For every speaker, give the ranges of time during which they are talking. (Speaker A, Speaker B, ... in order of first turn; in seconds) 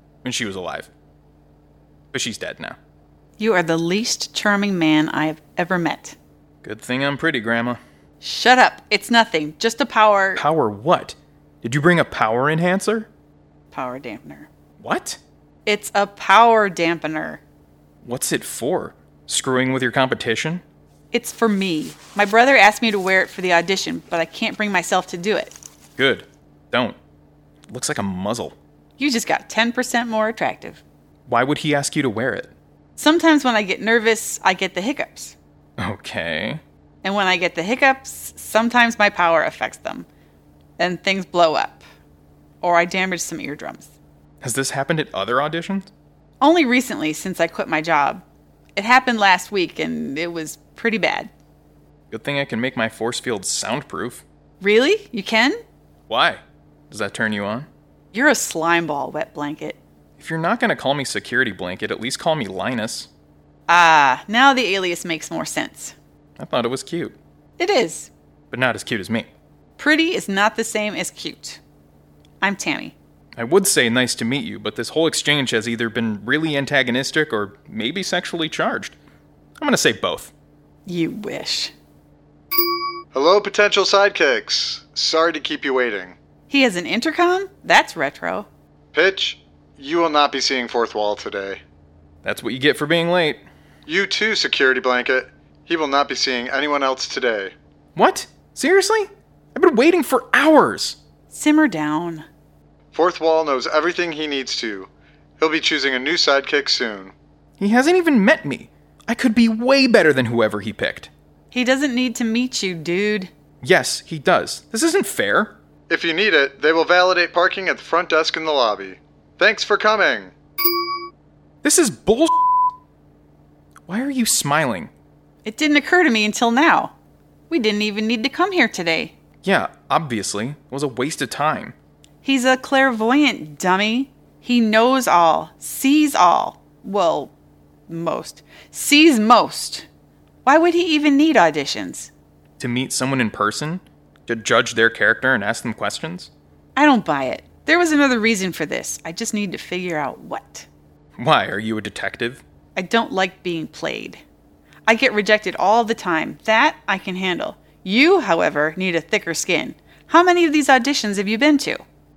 Speaker A: 0.2-0.9, 2.1-2.8, 6.6-7.8, 10.4-13.1, 14.8-15.2, 18.0-20.6, 26.0-27.0, 27.7-28.6, 31.3-32.5, 35.8-36.6, 44.4-45.9, 52.1-54.2, 56.1-57.7, 60.2-63.1, 66.4-67.2, 68.5-69.3, 73.4-79.0, 79.6-80.3, 92.2-93.4, 98.0-101.0, 107.6-111.1, 113.6-115.5, 121.6-122.4, 123.9-124.9, 129.4-131.8, 142.6-146.3, 151.2-152.4
Speaker B: 3.4-6.2, 8.2-10.4, 13.7-14.5, 15.7-17.4, 21.1-25.6, 29.0-30.8, 33.0-35.4, 37.0-40.1, 40.8-41.8, 42.6-43.9, 46.4-48.2, 48.8-51.3, 54.6-55.6, 58.1-59.8, 63.7-66.0, 67.6-68.1, 69.8-71.6, 72.4-73.0, 80.9-81.7, 86.5-88.5, 101.3-102.3, 111.5-113.3, 125.4-126.9, 127.5-129.1, 132.2-137.3, 137.9-139.9, 140.4-142.1, 146.8-150.7, 152.8-154.2, 154.9-161.8
Speaker C: 83.1-86.2, 88.9-91.6, 93.9-97.5, 102.9-107.1, 115.9-120.3